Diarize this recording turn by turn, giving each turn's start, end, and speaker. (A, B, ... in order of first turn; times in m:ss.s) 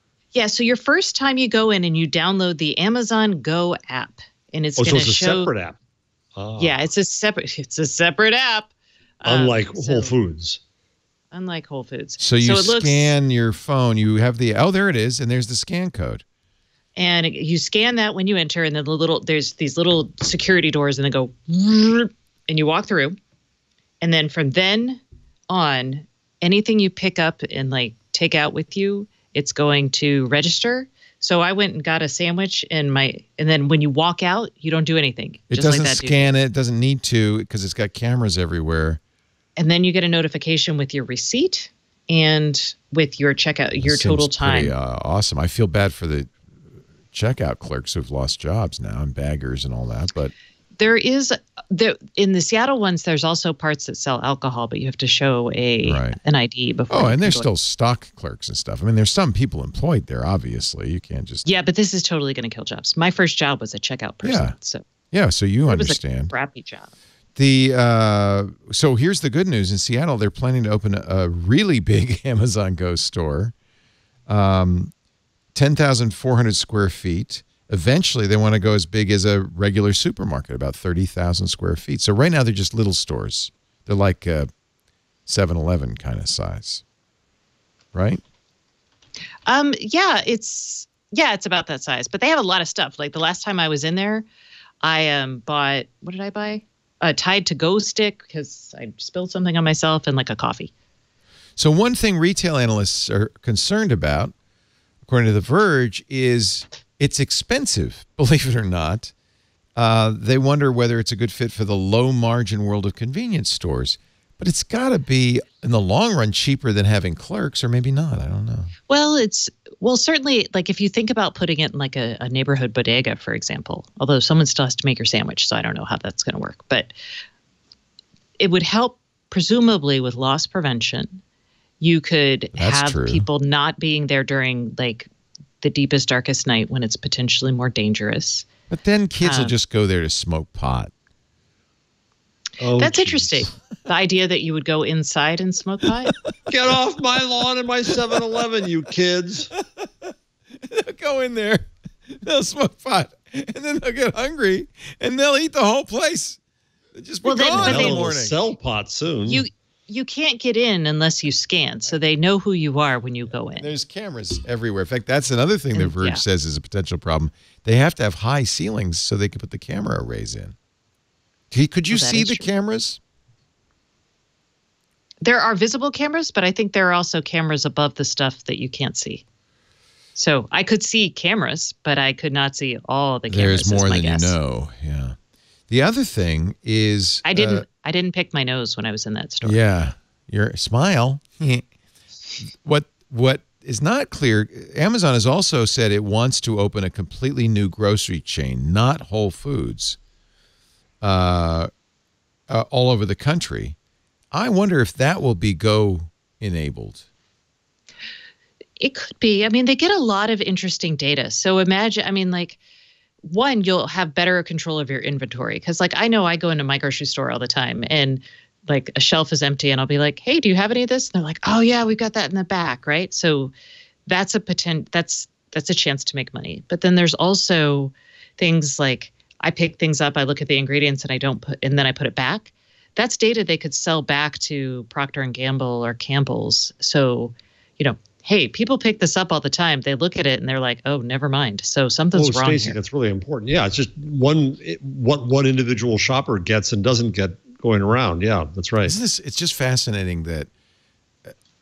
0:00.3-0:05.5 A
0:04.8-0:05.8 B
0:06.4-0:06.8 B
0:06.6-0:10.2 A
0:09.2-0:10.6 B
0:11.3-0:13.2 A
0:12.2-0:16.2 C
0:17.0-0:23.2 A
0:24.0-0:36.4 A
0:35.5-0:39.0 C
0:39.6-0:44.8 A
0:43.8-0:46.4 C
0:47.1-0:50.3 C
0:50.8-0:57.5 A
0:55.8-0:56.2 C
0:56.9-1:01.5 C
1:01.4-1:04.9 A
1:04.2-1:04.6 C
1:05.1-1:06.3 C
1:05.7-1:06.9 A
1:07.4-1:13.5 C
1:14.3-1:14.9 C
1:15.6-1:24.5 C
1:25.3-1:26.8 C
1:27.9-1:28.2 C
1:29.5-1:34.3 A
1:34.8-1:40.7 A
1:41.6-1:44.3 C
1:45.0-1:49.1 C
1:49.8-1:58.7 C
1:58.9-2:06.9 A
2:08.4-2:11.2 A
2:11.8-2:15.1 A
2:12.6-2:13.3 C
2:15.6-2:18.5 A
2:18.7-2:20.9 C
2:19.2-2:19.5 A
2:22.6-2:23.5 B
2:22.8-2:26.1 A
2:26.5-2:29.5 B
2:30.8-2:36.4 C
2:37.0-2:38.4 C
2:37.2-2:38.0 A
2:37.5-2:39.4 B
2:39.3-2:43.7 A
2:43.6-2:50.6 C
2:45.7-2:46.2 A
2:51.5-2:53.0 C
2:51.9-2:52.5 A
2:55.2-2:59.2 A
3:00.2-3:04.4 A
3:03.3-3:05.2 C
3:05.7-3:07.6 C
3:07.2-3:09.6 A
3:09.4-3:11.7 C
3:12.4-3:20.0 C
3:21.0-3:21.7 C
3:22.5-3:23.8 C
3:24.3-3:27.0 C
3:28.8-3:32.6 A
3:33.2-3:43.5 A
3:44.1-4:02.8 A
4:02.1-4:09.0 B
4:08.8-4:10.5 C